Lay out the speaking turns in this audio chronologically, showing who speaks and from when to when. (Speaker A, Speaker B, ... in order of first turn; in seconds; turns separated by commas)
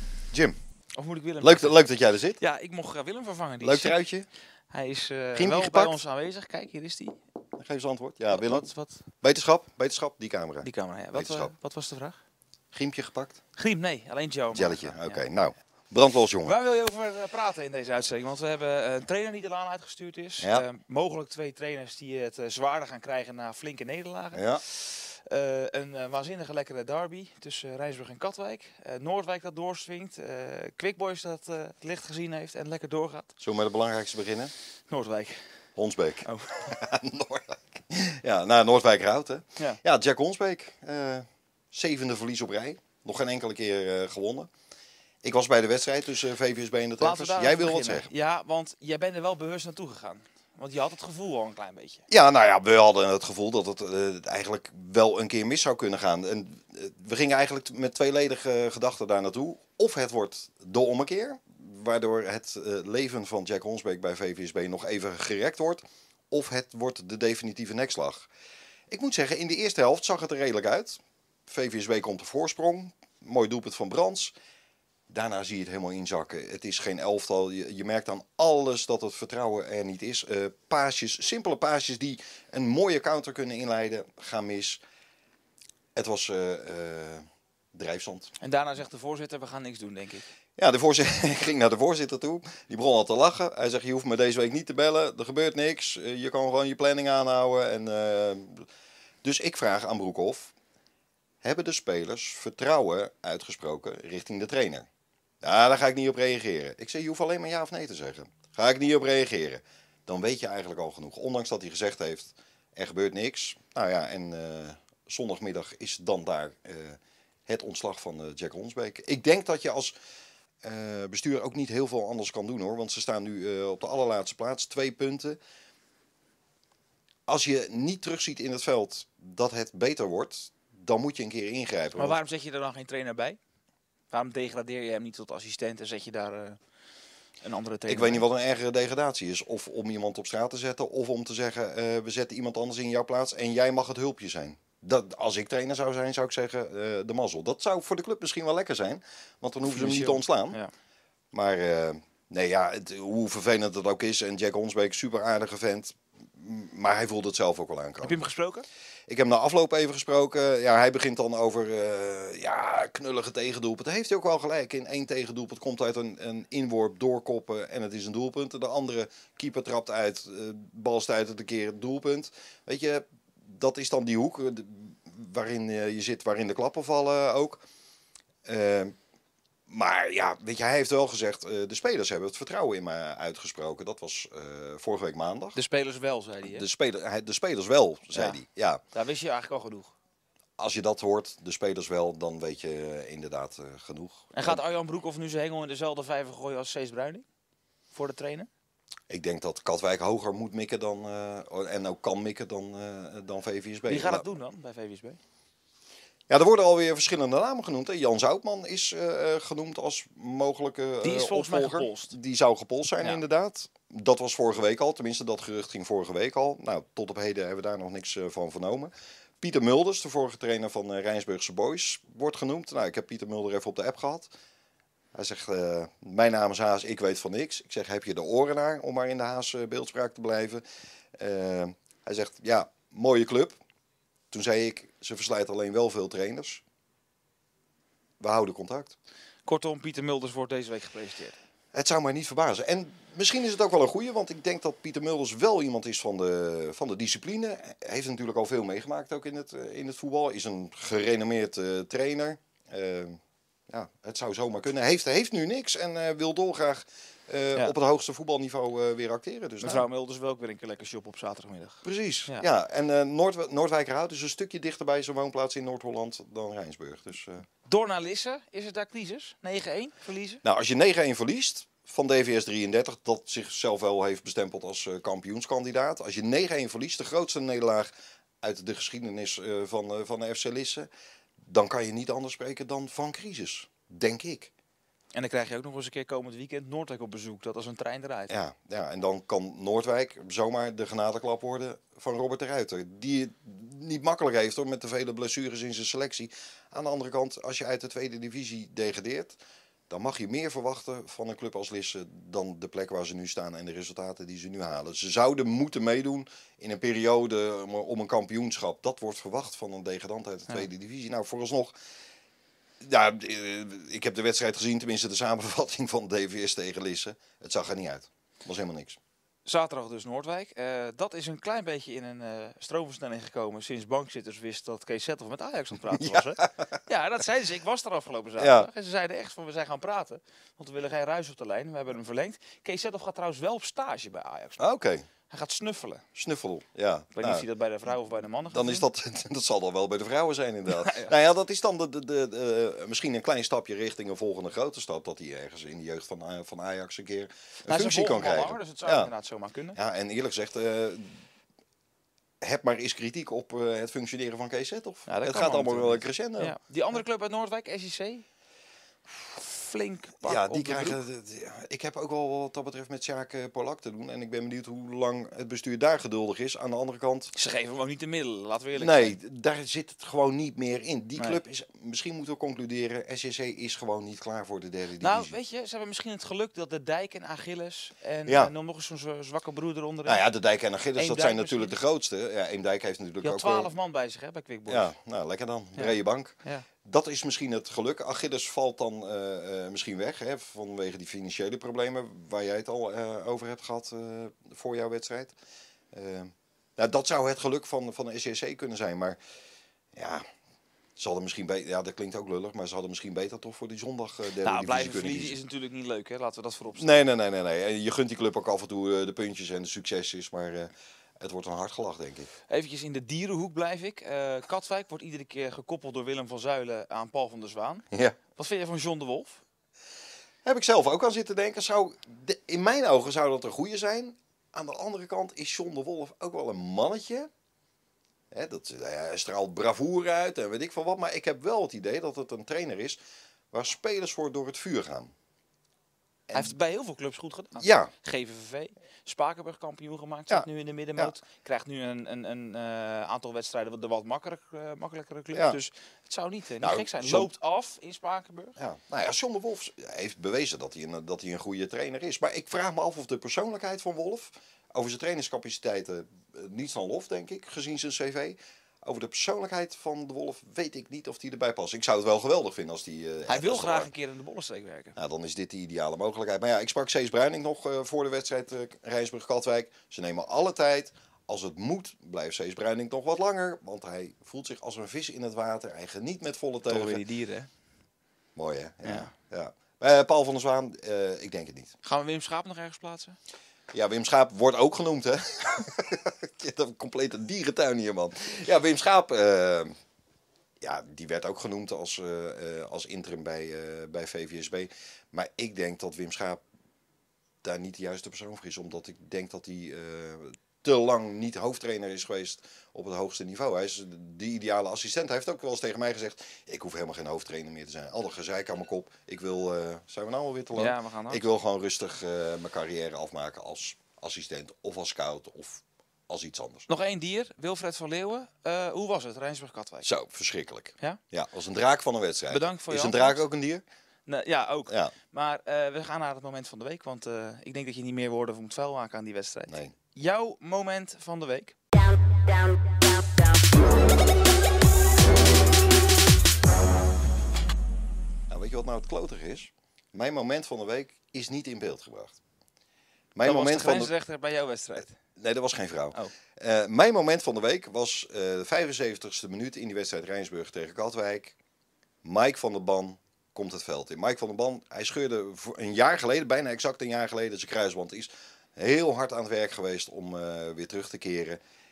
Speaker A: 0.3-0.6, Speaker B: 1.0-1.7, Speaker A: 1.4-2.4, Speaker B: 2.4-4.0, Speaker A: 3.6-4.3, Speaker B: 4.7-7.2, Speaker A: 5.3-6.0, Speaker A: 7.6-8.7, Speaker B: 8.3-9.0, Speaker A: 9.2-11.5, Speaker B: 10.6-12.2, Speaker A: 12.7-13.4, Speaker B: 13.6-15.2, Speaker A: 14.5-16.6, Speaker B: 16.4-33.3, Speaker A: 20.4-20.6, Speaker A: 24.3-24.6, Speaker A: 33.4-34.5, Speaker B: 34.9-35.4, Speaker A: 35.8-44.5, Speaker B: 36.2-36.8, Speaker A: 45.2-48.1, Speaker B: 47.0-52.0, Speaker A: 52.1-68.3, Speaker A: 68.9-74.3, Speaker A: 75.1-84.8, Speaker A: 85.9-88.3, Speaker B: 88.4-90.2, Speaker A: 90.6-98.7, Speaker A: 99.2-100.5, Speaker A: 101.4-104.9, Speaker A: 105.4-120.0, Speaker A: 120.6-125.4, Speaker A: 127.3-132.2, Speaker B: 131.9-133.4, Speaker B: 134.1-136.6, Speaker B: 137.4-138.2, Speaker A: 137.9-150.6, Speaker B: 149.6-150.7, Speaker A: 151.3-158.2, Speaker B: 158.0-158.7, Speaker A: 159.1-177.6, Speaker A: 178.4-178.9, Speaker A: 179.7-185.6, Speaker B: 185.5-186.7, Speaker A: 186.4-188.8, Speaker B: 188.1-188.4, Speaker B: 188.9-189.9, Speaker A: 190.6-194.6, Speaker B: 194.3-197.2, Speaker B: 197.9-198.5, Speaker A: 199.1-204.2, Speaker B: 203.8-205.2, Speaker A: 206.3-224.3, Speaker B: 211.0-212.2, Speaker A: 225.1-230.6, Speaker A: 231.2-233.6, Speaker A: 234.3-236.6, Speaker A: 238.2-238.9, Speaker B: 239.4-241.3, Speaker A: 241.7-259.9, Speaker B: 259.6-262.5, Speaker A: 261.8-267.4, Speaker B: 267.6-270.4, Speaker A: 270.4-280.9, Speaker A: 281.4-284.5, Speaker B: 285.1-288.3, Speaker A: 288.3-299.4, Speaker A: 299.9-311.8, Speaker A: 312.8-319.0, Speaker B: 319.4-334.6, Speaker A: 325.9-326.8, Speaker A: 328.4-328.7, Speaker A: 334.6-335.1, Speaker B: 335.3-336.0, Speaker A: 336.1-337.4, Speaker B: 337.1-338.8, Speaker A: 338.5-349.1, Speaker B: 340.7-341.1, Speaker B: 347.6-349.8, Speaker A: 349.7-351.2, Speaker A: 352.4-356.6, Speaker B: 355.1-358.2, Speaker B: 359.3-361.0, Speaker A: 360.2-367.3, Speaker B: 367.3-369.1, Speaker A: 368.8-375.3, Speaker B: 371.1-371.4, Speaker B: 375.0-380.2, Speaker A: 378.2-378.5, Speaker A: 380.1-383.7, Speaker B: 380.9-381.8, Speaker B: 383.2-384.9, Speaker A: 384.7-395.3, Speaker B: 385.8-386.6, Speaker A: 395.9-399.2, Speaker A: 399.9-400.2, Speaker A: 400.9-405.4, Speaker B: 404.4-407.0, Speaker A: 406.7-412.3, Speaker B: 412.5-419.4, Speaker A: 417.9-418.2, Speaker A: 420.4-427.3, Speaker A: 428.3-433.0, Speaker A: 433.5-435.1, Speaker B: 436.3-448.5, Speaker A: 437.6-437.9, Speaker A: 440.3-441.1, Speaker A: 446.6-447.3, Speaker A: 448.6-463.9, Speaker B: 463.3-464.9, Speaker A: 464.9-477.0, Speaker B: 476.7-477.5, Speaker A: 478.4-481.7, Speaker B: 478.8-479.1, Speaker B: 481.8-483.2, Speaker A: 483.7-489.7, Speaker A: 490.6-496.4, Speaker A: 497.4-516.7, Speaker B: 510.5-511.2, Speaker B: 516.7-519.9, Speaker A: 519.8-523.6, Speaker B: 522.3-523.2, Speaker B: 524.1-531.5, Speaker A: 524.7-524.9, Speaker A: 529.5-529.7, Speaker A: 538.3-542.2, Speaker A: 543.1-543.9, Speaker B: 543.2-545.0, Speaker A: 545.2-551.4, Speaker A: 552.0-561.4